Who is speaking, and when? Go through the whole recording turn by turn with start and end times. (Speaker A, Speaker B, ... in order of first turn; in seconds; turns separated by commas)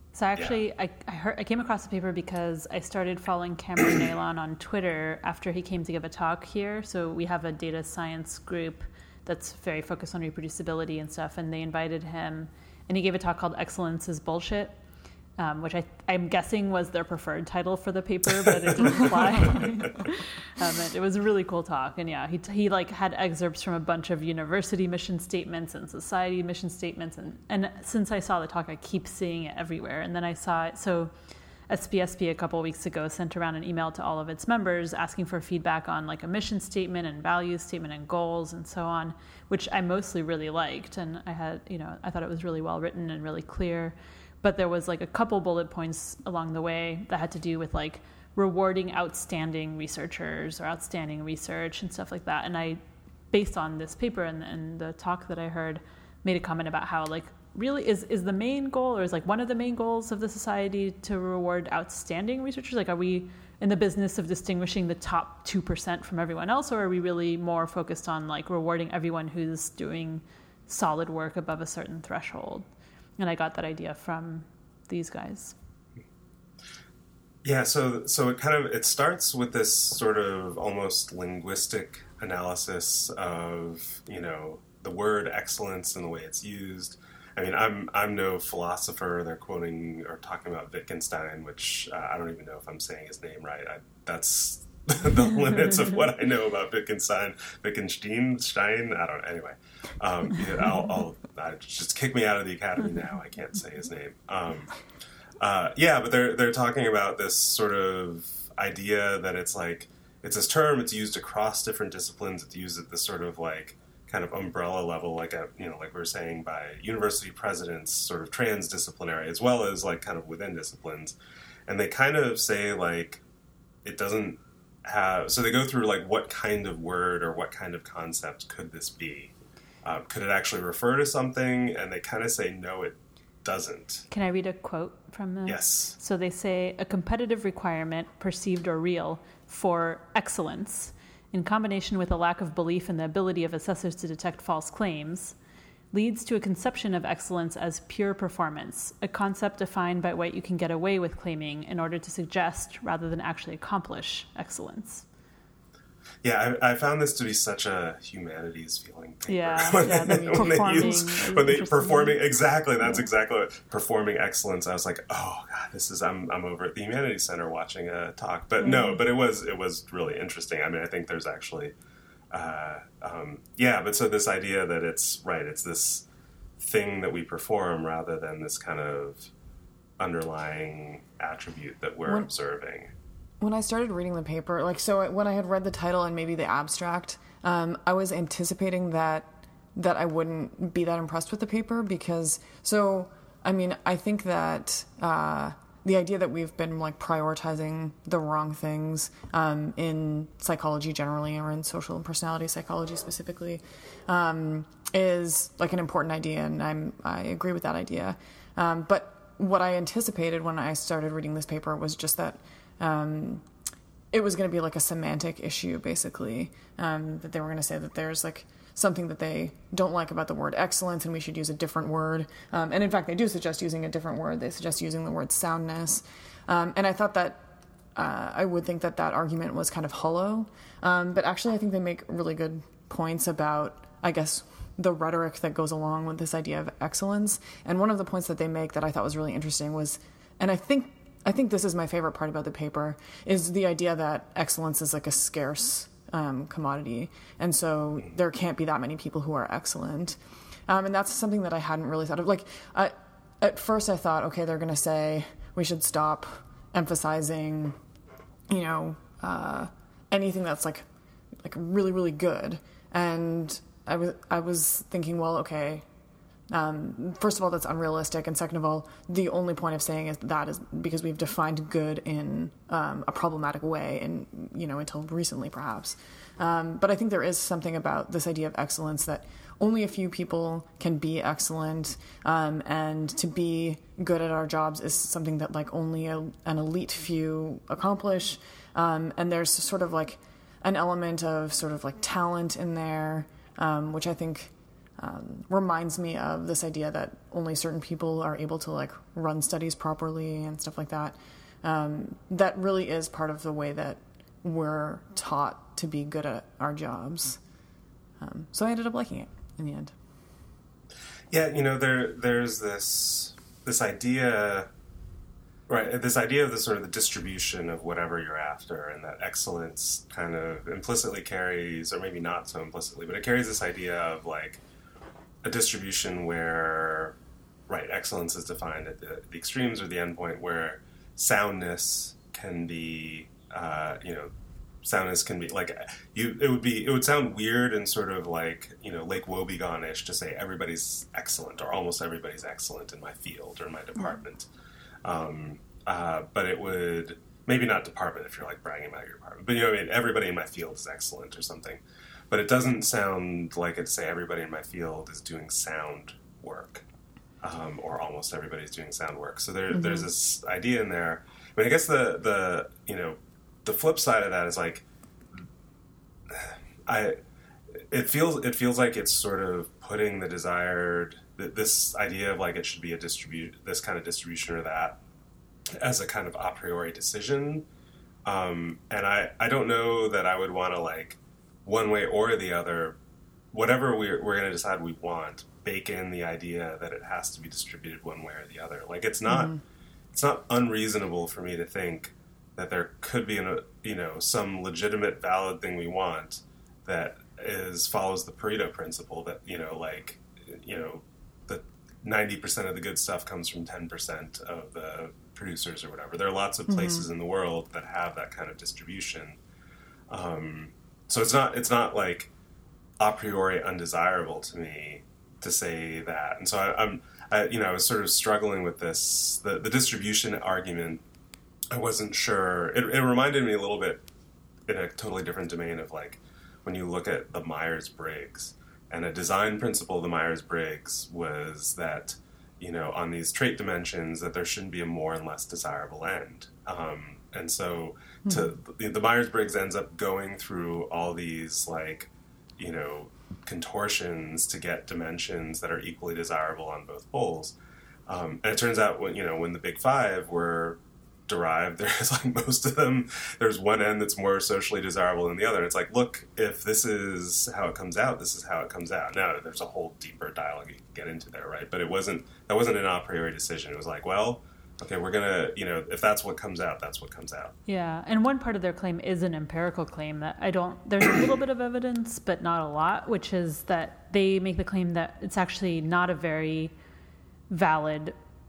Speaker A: 0.1-14.8, Speaker A: 15.4-31.1, Speaker B: 18.7-19.6, Speaker A: 31.7-52.8, Speaker A: 53.3-72.6, Speaker A: 73.2-75.5, Speaker B: 77.4-104.7, Speaker B: 105.4-121.1, Speaker B: 121.7-123.2, Speaker B: 123.8-129.3, Speaker B: 129.8-134.1, Speaker A: 134.1-145.3, Speaker B: 135.4-136.0, Speaker A: 145.9-155.0, Speaker B: 156.2-171.7, Speaker A: 159.3-162.2, Speaker C: 159.8-161.1, Speaker A: 168.6-169.0, Speaker B: 172.3-176.0, Speaker B: 176.6-179.3, Speaker B: 180.0-182.9, Speaker C: 182.1-182.3, Speaker C: 183.4-213.4, Speaker C: 214.1-257.8, Speaker C: 258.5-260.8, Speaker C: 261.4-265.8, Speaker C: 266.5-307.4, Speaker C: 308.2-309.9, Speaker B: 311.3-314.7, Speaker B: 315.7-324.6, Speaker B: 325.4-327.1, Speaker B: 327.7-334.3, Speaker B: 334.8-344.5, Speaker B: 345.0-356.8, Speaker B: 357.4-364.9, Speaker C: 359.7-360.1, Speaker B: 366.3-367.2, Speaker B: 367.8-375.0, Speaker B: 375.8-377.6, Speaker B: 378.2-383.0, Speaker B: 383.5-389.5, Speaker C: 389.3-389.6, Speaker B: 390.1-409.4, Speaker C: 406.7-407.0, Speaker B: 410.1-412.3, Speaker B: 413.0-421.0, Speaker B: 421.7-424.0, Speaker B: 424.7-447.5, Speaker B: 448.1-467.5, Speaker A: 467.7-476.7, Speaker A: 477.5-478.1